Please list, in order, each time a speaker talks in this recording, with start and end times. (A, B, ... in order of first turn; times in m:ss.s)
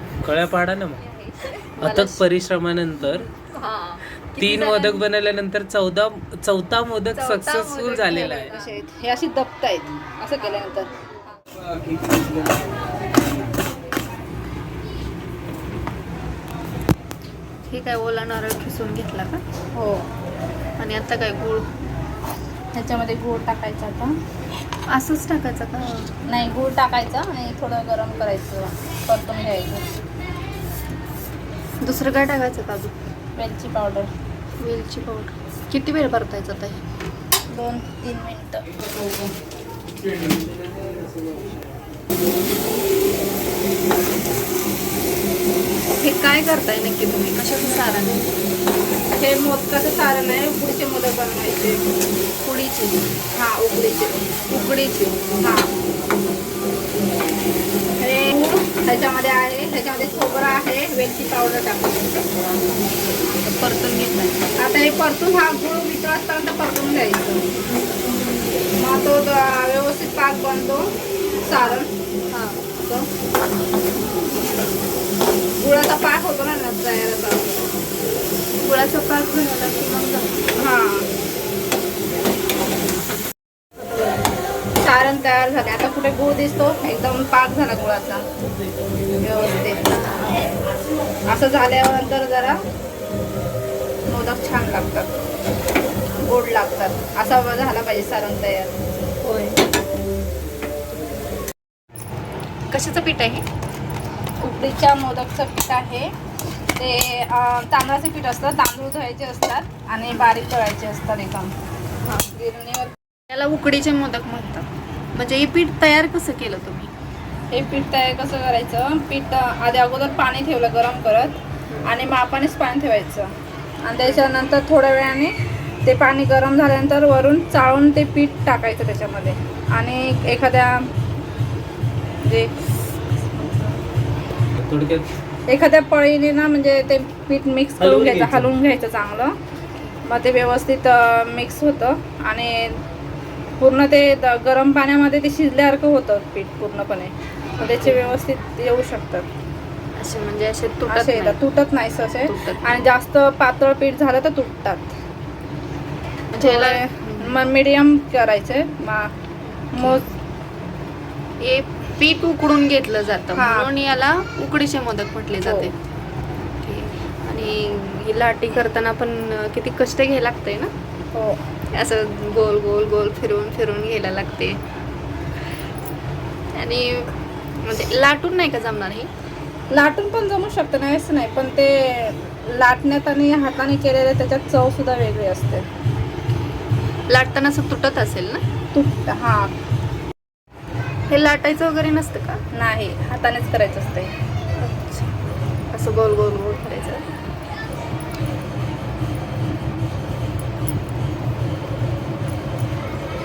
0:00.2-0:01.0 A
0:01.0-0:02.3 B
0:01.8-0:03.2 A
0:03.4-0:05.0 B
0:04.4-0:08.5 A
0:07.1-0:08.8 B
0:08.4-0:10.9 C
0:17.7-0:19.4 B
0:19.7-0:20.0 C
0:20.8-0:21.6 B
0:22.7-0:24.1 C
0:24.9-0:26.1 B
0:26.3-0:29.8 C
0:31.8-0:32.9 B
0:33.4-0:34.1 C
0:34.6-0:36.8 B
0:37.5-0:38.6 C
0:46.0-0:48.2 B
0:49.2-0:51.8 C
0:52.4-0:53.0 B
0:53.3-0:54.3 C
0:54.5-0:55.2 B
0:55.4-0:55.7 C
0:58.0-1:02.4 C
1:03.2-1:04.4 B
1:04.6-1:07.4 C
1:08.8-1:10.9 C
1:11.4-1:11.9 C
1:11.6-1:12.6 B
1:12.8-1:13.1 C
1:15.6-1:17.6 C
1:18.6-1:20.4 B
1:20.6-1:21.1 C
1:24.8-1:28.2 C
1:29.2-1:29.8 C
1:29.9-1:30.4 B
1:31.3-1:32.6 C
1:34.1-1:35.1 C
1:36.2-1:38.7 C
1:39.2-1:39.6 B
1:42.7-1:43.4 B
1:44.4-1:46.1 C
1:46.8-1:51.5 C
1:52.0-1:52.3 B
1:52.3-1:52.9 C
1:53.3-1:56.9 B
1:57.5-2:03.3 C
2:03.8-2:05.3 C
2:04.0-2:04.3 B
2:05.8-2:10.8 C
2:12.2-2:12.5 C
2:13.2-2:13.8 C
2:14.6-2:15.1 A
2:15.5-2:19.3 C
2:17.8-2:18.5 A
2:20.0-2:22.7 C
2:23.6-2:29.3 C
2:27.6-2:28.1 B
2:30.0-2:31.4 B
2:30.9-2:34.9 C
2:32.2-2:32.9 B
2:36.3-2:37.4 B
2:36.4-2:39.1 C
2:39.7-2:40.1 C
2:39.8-2:40.0 B
2:41.4-2:45.7 B
2:43.3-2:43.7 C
2:45.4-2:45.7 C
2:46.6-2:50.7 B
2:51.7-2:54.6 B
2:56.5-2:57.1 B
2:57.6-2:59.1 B
2:59.7-3:05.6 C
3:07.1-3:08.4 B
3:08.7-3:09.5 C
3:11.1-3:12.4 B
3:12.5-3:14.1 C
3:14.6-3:15.1 B
3:15.7-3:17.0 B